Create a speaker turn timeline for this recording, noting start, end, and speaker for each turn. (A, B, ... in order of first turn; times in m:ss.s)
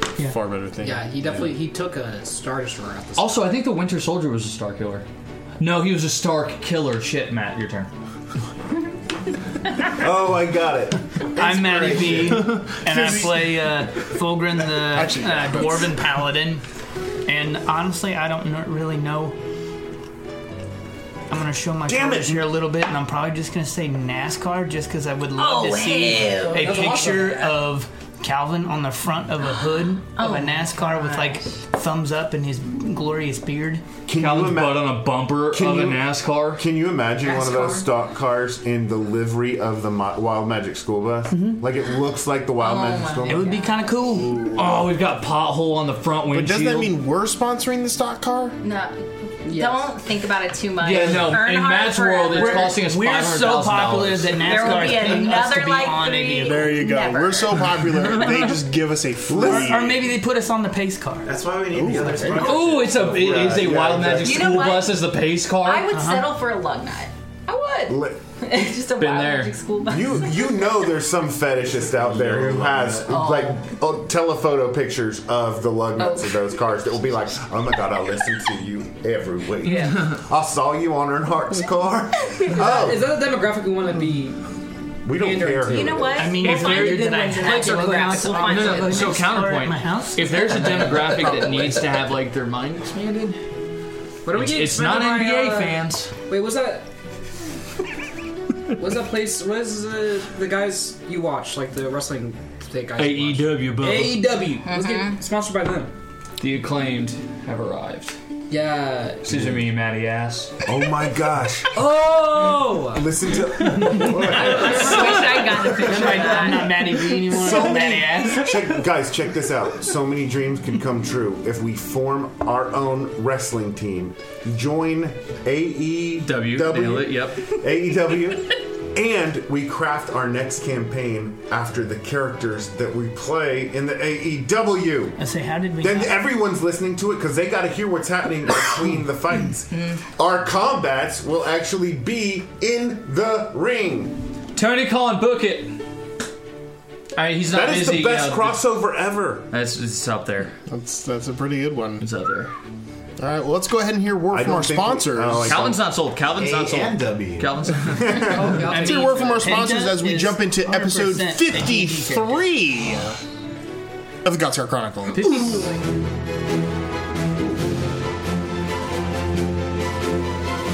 0:00.2-0:01.1 A
0:00.8-0:03.4 B
0:03.2-0:05.1 C
0:05.6-0:07.9 C
0:09.9-0:13.1 D
0:11.4-0:16.6 E
0:12.9-0:13.3 A
0:14.9-0:15.9 A
0:17.3-0:19.4 E
0:21.3-0:33.8 E
0:21.9-0:22.6 D
0:25.4-0:27.0 F
0:26.5-0:27.6 B
0:30.2-0:31.5 F
0:34.1-0:43.6 D
0:34.1-0:36.6 C
0:37.2-0:37.9 F
0:41.3-0:41.6 E
0:42.6-0:44.0 F
0:43.3-0:44.5 E
0:44.3-0:44.7 A
0:44.5-0:47.0 C
0:46.3-0:48.6 A
0:48.6-0:52.8 F
0:49.4-0:49.9 B
0:50.8-0:54.7 C
0:52.3-0:56.8 E
0:54.4-0:58.4 F
0:56.4-1:00.0 A
0:59.3-1:00.1 D
0:59.4-1:01.3 E
1:01.2-1:03.9 G
1:01.7-1:02.6 A
1:01.8-1:04.6 D
1:02.4-1:05.9 C
1:04.2-1:05.1 F
1:05.6-1:10.8 F
1:05.9-1:06.4 E
1:07.9-1:08.2 D
1:09.0-1:09.5 C
1:09.9-1:23.2 D
1:11.6-1:13.2 G
1:13.1-1:13.6 F
1:16.0-1:16.4 F
1:19.6-1:20.0 F
1:19.6-1:20.2 C
1:22.5-1:24.5 B
1:25.0-1:26.4 D
1:25.1-1:26.1 B
1:25.7-1:29.2 F
1:26.1-1:31.5 E
1:26.4-1:33.4 C
1:34.3-1:36.9 B
1:34.3-1:36.1 C
1:38.8-1:45.9 B
1:43.0-1:44.4 C
1:44.7-1:45.2 F
1:46.4-1:48.2 C
1:48.5-1:49.4 B
1:49.3-1:50.5 C
1:49.3-1:49.6 D
1:50.6-1:51.8 D
1:51.7-1:53.1 B
1:52.9-1:56.3 D
1:53.8-1:56.6 B
1:54.3-1:57.4 F
1:55.7-1:58.6 E
1:57.3-2:15.2 D
1:57.5-1:58.0 B
2:06.2-2:07.5 C
2:15.2-2:16.1 E
2:15.8-2:24.2 D
2:24.6-2:25.7 C
2:27.2-2:28.6 C
2:27.5-2:29.5 D
2:29.5-2:30.6 C
2:30.7-2:32.1 A
2:32.0-2:32.5 C
2:33.2-2:35.6 A
2:34.3-2:38.5 D
2:35.4-2:38.5 C
2:36.5-2:38.1 G
2:38.2-2:39.6 B
2:38.4-2:42.4 E
2:38.7-2:43.2 A
2:44.2-2:45.6 A